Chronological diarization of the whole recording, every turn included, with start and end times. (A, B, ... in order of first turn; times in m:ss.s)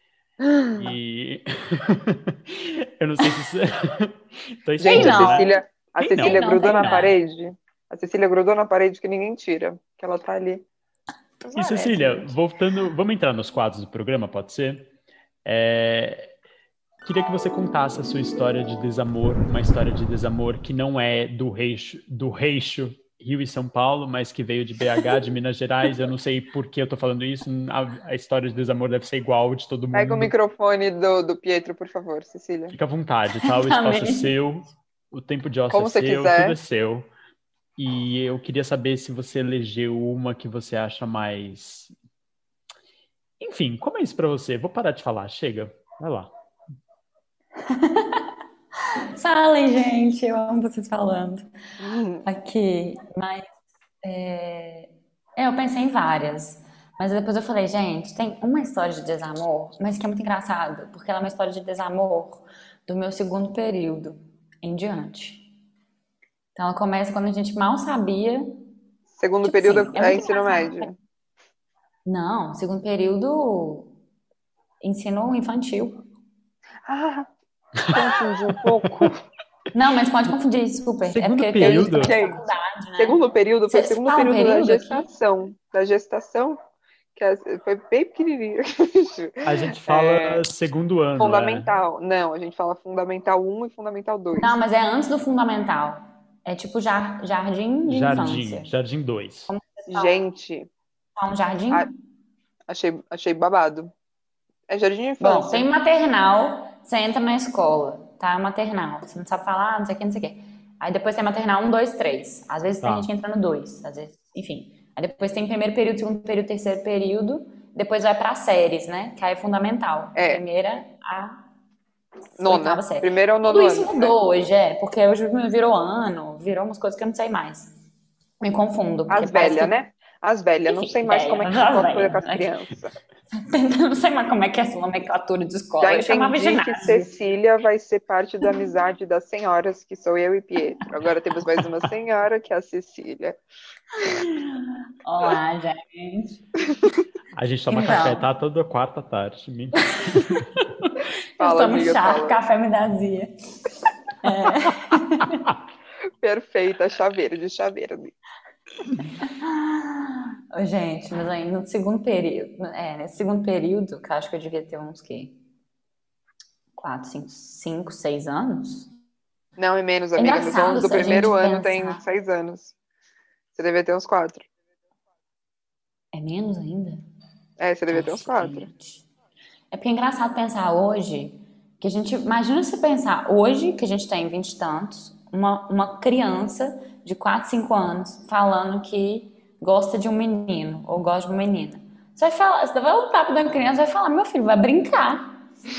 0:00.4-0:00.8 A
0:00.8-0:07.1 B
0:04.8-0:10.7 A
0:04.8-0:05.5 C
0:06.2-0:07.1 C
0:11.4-0:12.3 A
0:11.6-0:14.9 B
0:15.4-0:16.3 B
0:17.0-0:30.3 B
0:29.9-0:32.8 A
0:32.7-0:37.1 B
0:33.4-0:34.3 C
0:35.7-0:36.6 A
0:37.8-0:41.9 B
0:43.4-0:46.3 B
0:47.6-0:48.3 C
0:49.2-0:51.5 C
0:51.8-0:52.3 A
0:52.2-0:53.5 C
0:54.0-1:05.4 C
1:06.6-1:08.6 C
1:09.1-1:11.0 A
1:09.4-1:10.9 C
1:12.1-1:13.9 C
1:14.8-1:16.0 C
1:16.9-1:17.3 A
1:17.9-1:19.2 A
1:18.8-1:19.1 B
1:19.7-1:25.1 C
1:21.1-1:22.2 B
1:21.6-1:22.5 A
1:23.0-1:26.6 A
1:27.2-1:30.4 A
1:29.4-1:31.7 B
1:31.2-1:34.6 A
1:34.3-1:38.7 C
1:37.9-1:39.5 B
1:39.5-1:40.2 C
1:39.9-1:40.7 A
1:41.2-1:41.9 C
1:42.7-1:43.9 A
1:44.7-1:45.7 A
1:45.2-2:01.4 C
1:52.8-1:53.1 B
2:00.2-2:00.4 A
2:02.4-2:07.7 C
2:02.4-2:04.2 A
2:08.4-2:09.7 C
2:09.1-2:13.0 A
2:10.7-2:12.5 C
2:13.3-2:17.1 C
2:15.8-2:23.4 A
2:24.0-2:26.4 C
2:27.3-2:30.5 B
2:27.7-2:28.3 C
2:30.1-2:30.4 C
2:31.4-2:32.4 A
2:31.4-2:35.5 C
2:36.2-2:38.1 A
2:39.2-2:45.4 C
2:46.8-2:48.9 C
2:49.6-2:52.8 A
2:50.2-2:52.0 C
2:53.6-2:54.5 A
2:56.1-2:57.0 C
2:57.6-2:58.7 A
2:57.9-2:59.0 C
2:59.7-3:15.4 C